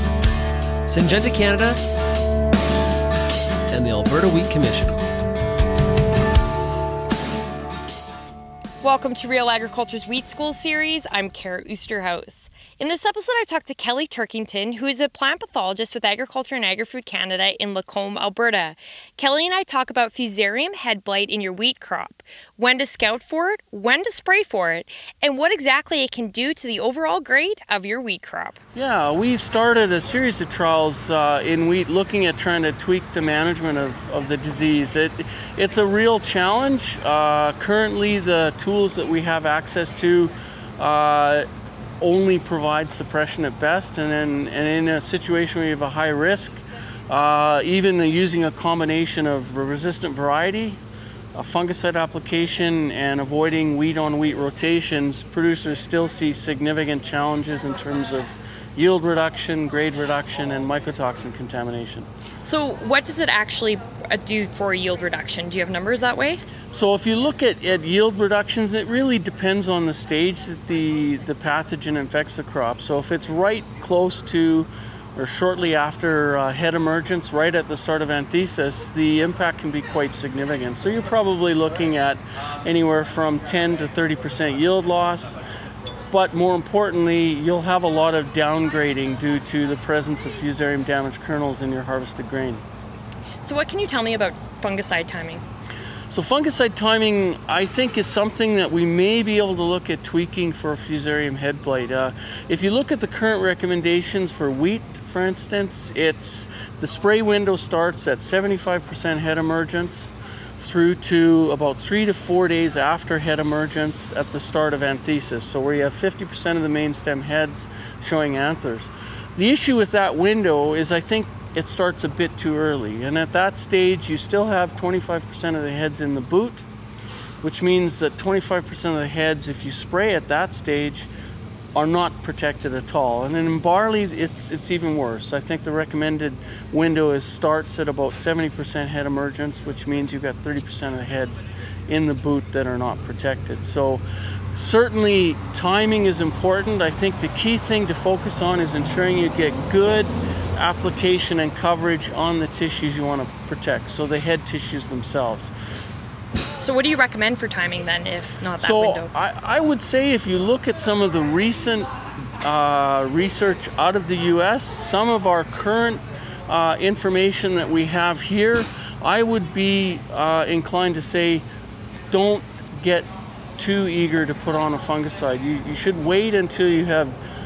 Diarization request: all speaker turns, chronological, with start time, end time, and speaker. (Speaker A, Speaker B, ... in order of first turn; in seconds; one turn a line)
Speaker A: 0.9-1.8
Speaker A: 3.7-5.0
Speaker B: 8.8-28.6
Speaker C: 28.7-41.5
Speaker C: 42.0-50.8
Speaker C: 51.4-62.1
Speaker B: 62.4-66.4
Speaker C: 66.7-85.4
Speaker C: 86.1-92.6
Speaker B: 93.4-95.4
Speaker C: 96.1-126.7
Speaker C: 127.4-131.1
Speaker C: 131.8-144.0
Speaker C: 144.5-155.5
Speaker B: 156.6-159.1
Speaker C: 158.6-171.4
Speaker C: 172.1-177.2